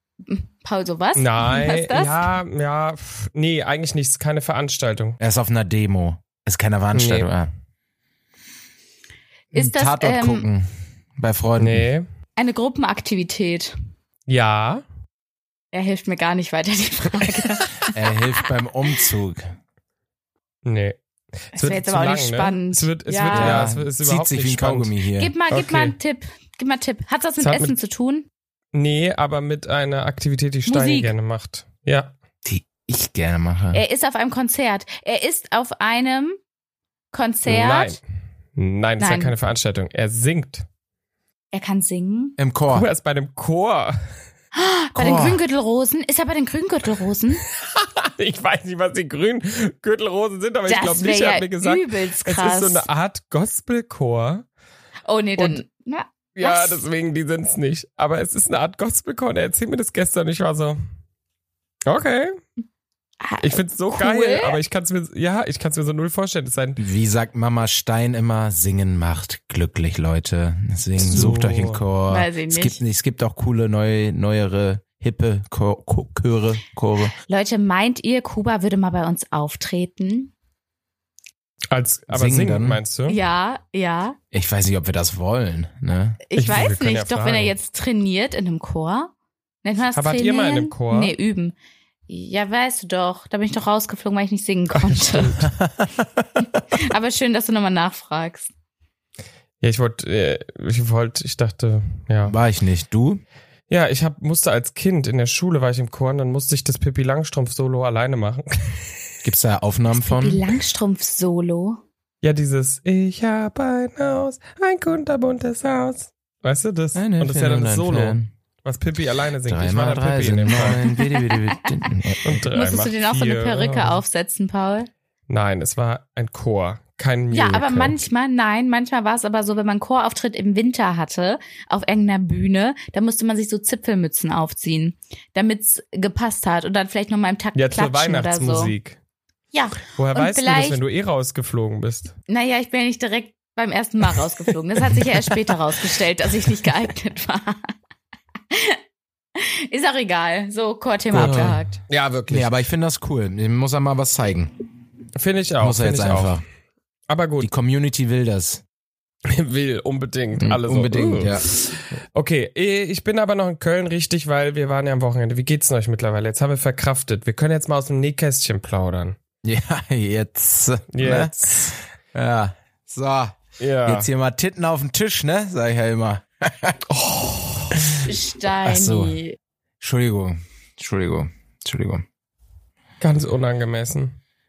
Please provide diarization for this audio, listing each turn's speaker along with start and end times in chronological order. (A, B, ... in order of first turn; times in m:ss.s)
0:00.2-0:02.3 A
0:01.2-0:05.2 B
0:05.2-0:07.5 C
0:06.9-0:07.3 B
0:09.5-0:11.8 C
0:09.5-0:10.5 A
0:11.6-0:12.0 B
0:12.4-0:13.7 A
0:14.3-0:14.8 B
0:15.7-0:18.5 A
0:17.8-0:19.4 C
0:20.6-0:21.0 B
0:21.5-0:24.9 B
0:21.6-0:23.7 A
0:23.3-0:25.3 C
0:25.2-0:28.3 A
0:25.5-0:25.9 B
0:27.4-0:27.7 B
0:28.7-0:32.1 B
0:30.7-0:31.1 A
0:32.4-0:33.8 C
0:33.7-0:36.4 A
0:37.1-0:38.0 A
0:37.5-0:38.0 B
0:38.6-0:40.6 B
0:39.0-0:39.3 A
0:41.5-0:42.4 A
0:42.4-0:42.9 C
0:42.7-0:44.0 B
0:44.5-0:47.4 A
0:44.9-0:45.4 C
0:47.7-0:54.4 B
0:50.7-0:52.9 A
0:55.0-0:56.8 A
0:56.4-1:00.8 B
1:01.9-1:02.4 B
1:03.2-1:04.6 A
1:03.4-1:06.8 B
1:06.8-1:17.1 C
1:11.0-1:11.8 B
1:12.1-1:12.8 A
1:17.1-1:20.3 A
1:21.7-1:23.2 B
1:22.1-1:22.8 C
1:23.1-1:24.2 A
1:24.3-1:26.2 C
1:26.3-1:29.1 A
1:26.4-1:27.5 B
1:29.6-1:31.6 A
1:29.9-1:31.1 B
1:32.1-1:35.5 A
1:34.7-1:35.5 B
1:35.5-1:36.2 C
1:36.4-1:38.5 A
1:39.6-1:42.4 B
1:42.2-1:43.2 C
1:43.7-1:48.8 B
1:49.2-1:50.4 C
1:49.9-1:51.8 A
1:52.2-2:00.9 B
1:56.9-1:58.3 C
1:59.4-2:02.4 C
2:00.9-2:01.5 A
2:02.2-2:04.0 B
2:02.4-2:04.9 A
2:05.3-2:08.0 B
2:07.3-2:18.7 A
2:17.6-2:19.0 B
2:19.5-2:20.8 A
2:20.0-2:22.1 B
2:22.3-2:27.7 A
2:28.5-2:28.8 A
2:29.4-2:31.8 A
2:31.1-2:31.6 C
2:31.2-2:32.5 B
2:32.3-2:34.5 C
2:35.1-2:36.4 B
2:35.6-2:36.4 C
2:37.1-2:37.5 B
2:37.4-2:38.6 C
2:39.2-2:49.2 B
2:40.4-2:41.5 C
2:49.4-2:56.8 C
2:50.9-2:51.8 B
2:53.6-2:54.1 B
2:56.9-2:57.8 B
2:58.1-2:59.4 A
2:58.6-2:59.2 C
2:59.8-3:02.0 C
3:03.0-3:04.2 B